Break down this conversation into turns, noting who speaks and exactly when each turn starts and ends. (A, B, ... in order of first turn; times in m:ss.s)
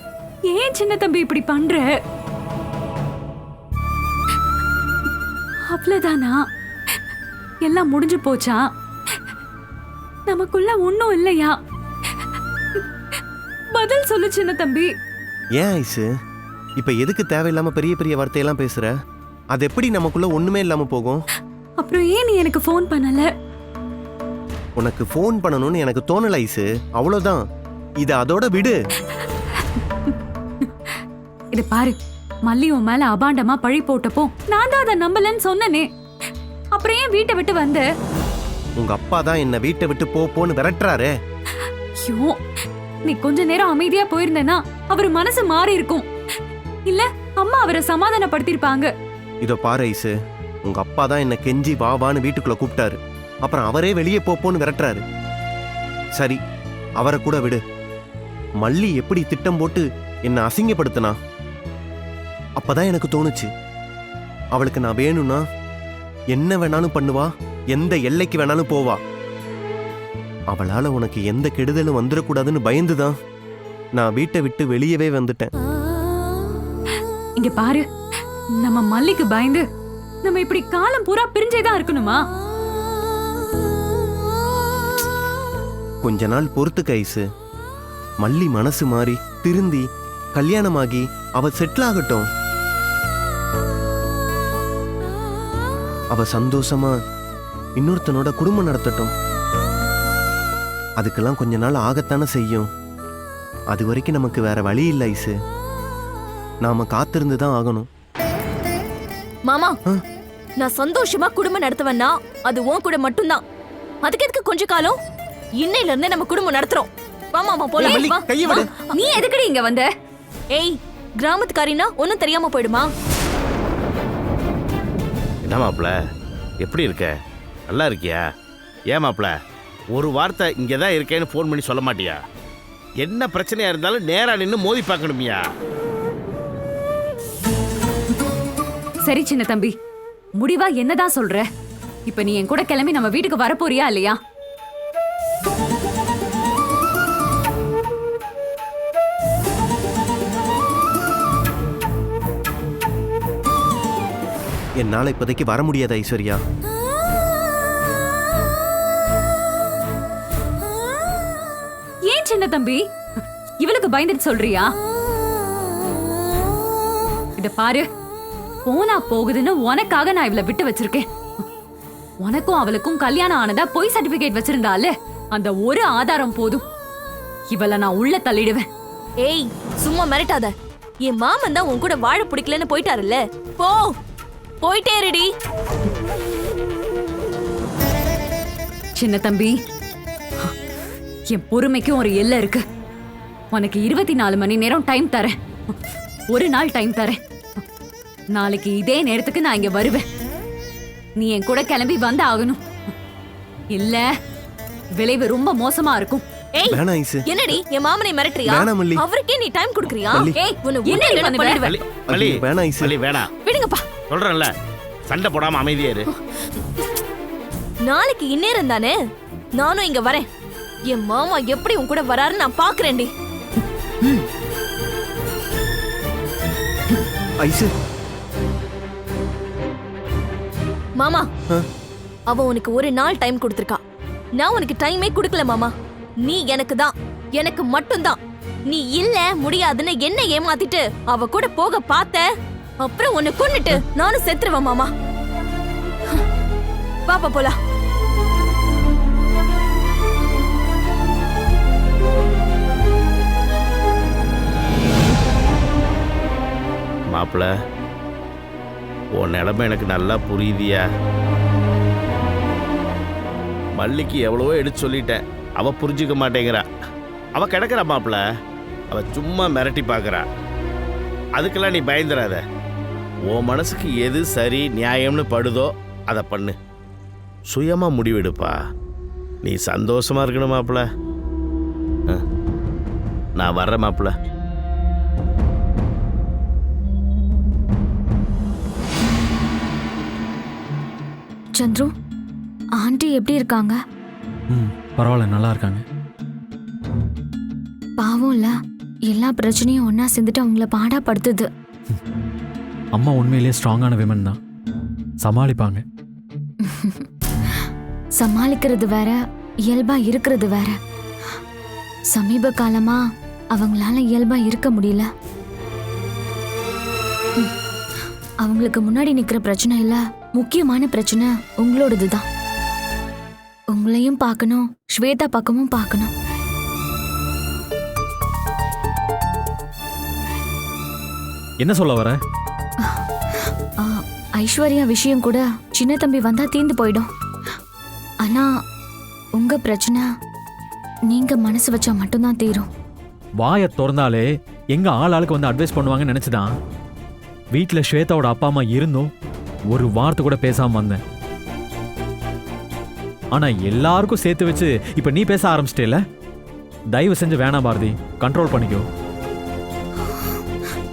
0:00.5-0:02.0 A
0:05.7-0:07.0 A
0:07.6-0:09.2 A
0:10.3-0:11.6 A
0:12.2-0:12.8 A
0:13.7-0:14.9 A
0:15.6-0:16.1 B
0:16.8-0:18.9 B
0:19.5-0:21.2 B
0:21.8-0:23.2 A
0:24.8-0:27.4 B
0:28.0-0:28.8 B
0:29.6-0:31.0 A
0:31.6-0:32.0 A
0:32.5-0:35.9 A
0:36.8-0:37.8 A
0:38.8-0:41.1 B
0:42.0-0:42.4 A
0:43.1-0:46.1 A
0:46.9-0:48.9 A
0:49.4-0:50.1 B
0:50.7-0:55.0 B
0:57.0-0:57.6 B
0:58.6-1:01.2 B
1:02.6-1:03.5 B
1:04.6-1:05.4 B
1:06.3-1:09.0 B
1:10.5-1:13.2 B
1:14.0-1:15.5 B
1:17.4-1:17.9 A
1:18.6-1:19.6 A
1:20.2-1:22.2 A
1:26.0-1:27.2 B
1:28.2-1:29.8 B
1:30.4-1:32.2 B
1:36.1-1:37.0 B
1:37.8-1:39.1 B
1:41.0-1:42.7 B
1:43.7-1:45.3 B
1:46.6-1:47.9 B
1:49.5-1:49.8 C
1:50.6-1:53.4 C
1:54.0-1:55.0 C
1:55.6-1:59.2 C
1:57.8-1:58.6 B
1:59.0-1:59.9 A
2:00.5-2:02.9 C
2:05.5-2:05.9 D
2:06.6-2:07.1 D
2:07.7-2:08.2 D
2:08.9-2:09.3 D
2:09.9-2:12.2 D
2:13.0-2:15.4 D
2:19.1-2:19.7 A
2:20.4-2:21.5 A
2:22.1-2:24.2 A
2:34.8-2:36.4 B
2:42.1-2:42.8 A
2:43.6-2:44.7 A
2:47.4-2:47.9 A
2:48.7-2:51.1 A
2:52.2-2:56.6 A
2:57.5-2:58.7 A
2:59.2-3:00.5 C
3:01.0-3:04.0 C
3:04.6-3:05.3 C
3:09.0-3:09.6 A
3:11.3-3:12.6 A
3:13.5-3:15.8 A
3:16.3-3:17.6 A
3:18.3-3:20.0 A
3:21.2-3:22.6 A
3:23.7-3:24.1 A
3:25.0-3:26.2 A
3:26.6-3:31.8 C
3:26.7-3:27.2 B
3:28.5-3:29.0 B
3:30.4-3:31.6 A
3:31.6-3:33.3 D
3:32.1-3:32.9 B
3:33.4-3:33.8 C
3:34.1-3:34.5 D
3:35.1-3:36.1 D
3:37.8-3:39.0 C
3:39.6-3:40.3 C
3:40.9-3:43.1 C
3:47.4-3:47.7 B
3:51.0-3:51.3 C
3:52.3-3:53.8 C
3:54.4-3:55.7 C
3:56.2-3:58.2 C
3:58.7-4:02.2 C
4:02.8-4:04.9 C
4:07.1-4:07.6 C
4:17.1-4:17.5 D
4:19.2-4:20.8 D
4:23.8-4:26.7 D
4:27.4-4:28.2 D
4:28.9-4:30.2 D
4:31.4-4:32.4 D
4:33.3-4:36.6 D
4:37.5-4:38.6 D
4:39.4-4:40.8 D
4:43.4-4:44.1 D
4:51.6-4:51.9 E
4:52.8-4:53.8 E
4:54.5-4:55.8 F
4:58.0-4:58.6 E
4:59.1-5:01.5 E
5:03.0-5:04.4 F
5:05.2-5:05.8 F
5:06.6-5:07.1 E
5:08.2-5:10.8 E
5:12.1-5:13.0 E
5:13.5-5:15.1 E
5:18.4-5:22.3 E
5:23.7-5:26.1 E
5:31.6-5:32.2 F
5:33.8-5:37.1 E
5:38.2-5:38.5 E
5:39.4-5:40.1 E
5:41.1-5:42.7 E
5:43.4-5:46.5 F
5:47.5-5:49.1 F
5:49.7-5:51.0 F
5:53.3-5:56.0 F
5:56.9-5:58.9 F
6:00.0-6:00.4 E